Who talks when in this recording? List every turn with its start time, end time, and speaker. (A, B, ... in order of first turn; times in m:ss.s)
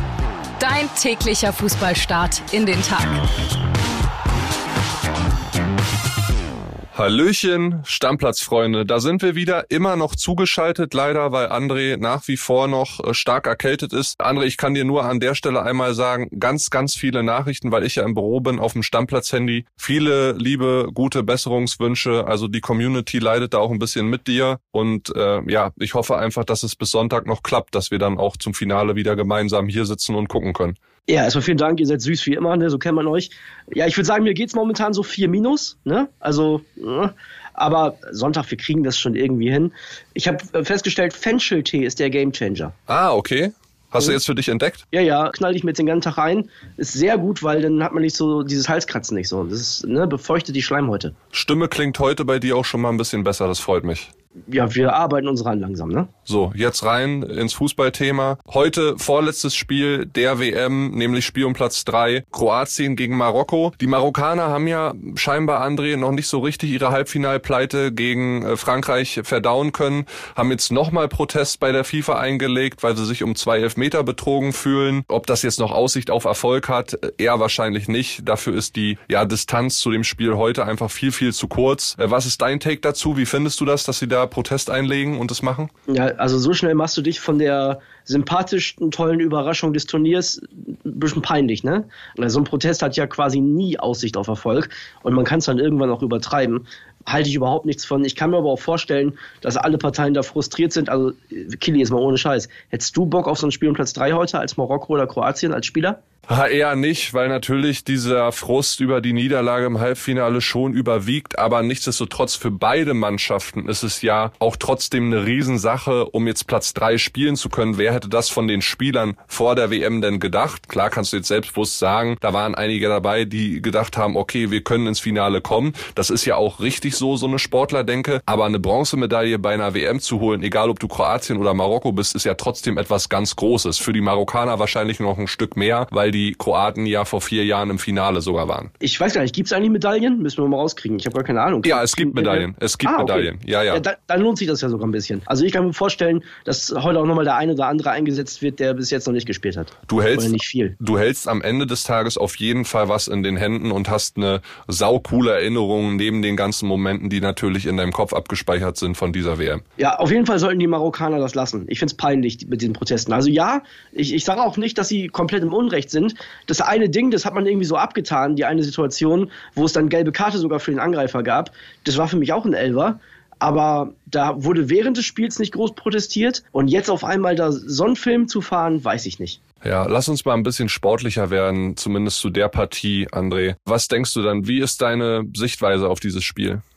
0:00.6-0:03.2 A
0:06.9-0:30.8 B
0:31.1-0:42.8 C
0:42.9-0:44.8 B
0:44.9-0:51.1 C
0:51.3-0:54.1 B
0:54.5-0:56.1 C
0:56.3-1:25.7 B
1:25.9-1:46.0 C
1:46.3-2:18.7 B
2:18.8-2:30.8 C
2:21.6-2:23.8 B
2:29.9-2:39.6 B
2:39.8-2:59.4 C
2:59.6-3:06.6 B